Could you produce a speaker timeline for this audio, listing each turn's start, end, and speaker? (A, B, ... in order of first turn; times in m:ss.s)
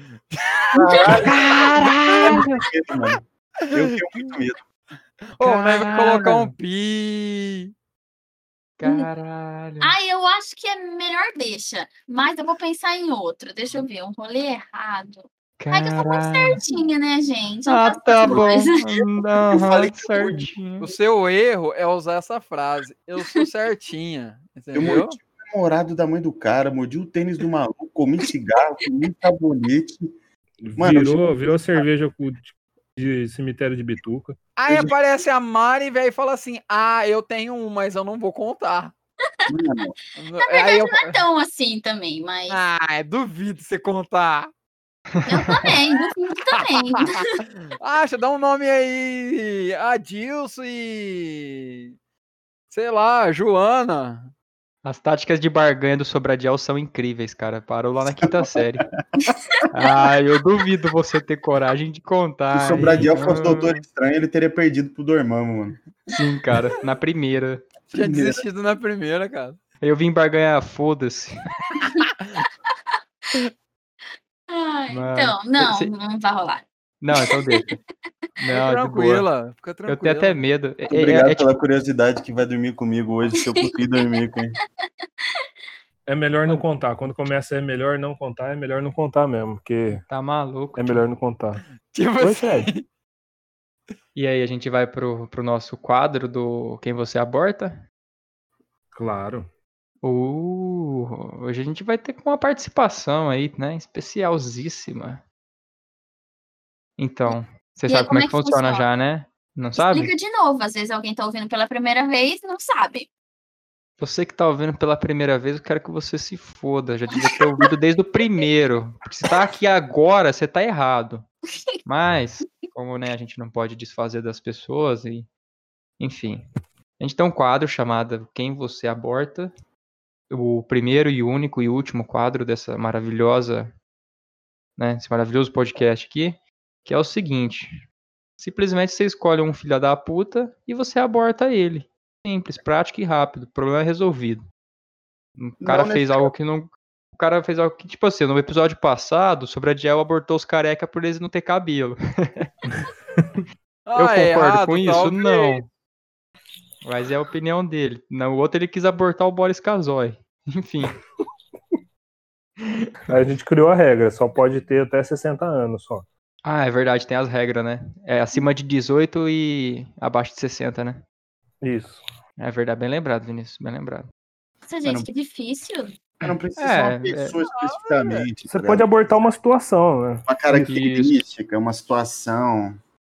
0:00.3-0:02.1 A
0:00.7-0:01.7 B
0:01.2-0:02.6 C
0:02.2-0:04.6 B
0:03.7-0:04.0 A
0:05.4-0:07.7 A
0:05.4-0:06.5 C
0:08.8-0:09.9 C
0:09.8-0:18.7 D
0:15.6-0:16.8 C
0:17.7-0:20.9 C
0:19.5-0:20.5 B
0:20.8-0:25.2 A
0:24.7-0:30.1 B
0:30.6-0:34.4 E
0:30.8-0:31.8 B
0:34.6-0:38.9 A
0:34.7-0:34.9 B
0:39.5-0:40.0 B
0:40.2-0:41.2 A
0:40.4-0:42.6 D
0:42.5-0:44.5 A
0:45.2-0:45.7 C
0:45.3-0:47.4 D
0:46.5-0:51.9 A
0:52.7-0:54.3 A
0:54.8-0:58.9 C
0:58.2-0:58.6 B
0:59.3-0:59.6 D
0:59.7-1:03.8 C
1:02.5-1:05.8 B
1:06.1-1:07.7 C
1:07.9-1:09.6 A
1:07.9-1:08.4 B
1:09.8-1:11.6 C
1:14.5-1:17.8 D
1:14.9-1:15.9 C
1:17.0-1:17.8 C
1:18.4-1:19.3 C
1:18.5-1:20.4 A
1:19.9-1:21.5 C
1:20.9-1:24.6 B
1:25.0-1:25.4 D
1:26.1-1:30.0 E
1:30.0-1:31.0 C
1:30.8-1:31.7 E
1:31.9-1:32.8 A
1:32.2-1:32.7 E
1:34.2-1:37.8 C
1:39.0-1:39.5 E
1:40.0-1:45.2 C
1:47.0-1:50.1 C
1:47.9-1:48.8 D
1:49.8-1:53.1 D
1:54.0-2:01.3 C
1:57.1-1:57.7 D
2:01.8-2:05.3 C
2:06.0-2:06.5 C
2:07.0-2:09.5 C
2:10.3-2:13.7 C
2:14.8-2:17.8 C
2:18.4-2:24.4 C
2:25.4-2:32.5 C
2:25.6-2:26.3 B
2:33.9-2:35.6 A
2:34.0-2:35.7 C
2:36.8-2:41.0 C
2:42.6-2:42.9 C
2:43.1-2:46.1 E
2:46.4-2:51.0 C
2:51.6-2:52.0 E
2:52.4-2:54.1 C
2:54.7-2:55.9 D
2:54.8-2:55.1 B
2:56.2-2:58.9 B
2:56.6-2:57.4 C
2:57.4-2:58.2 A
2:58.5-3:00.7 E
3:00.3-3:02.8 B
3:00.7-3:01.2 C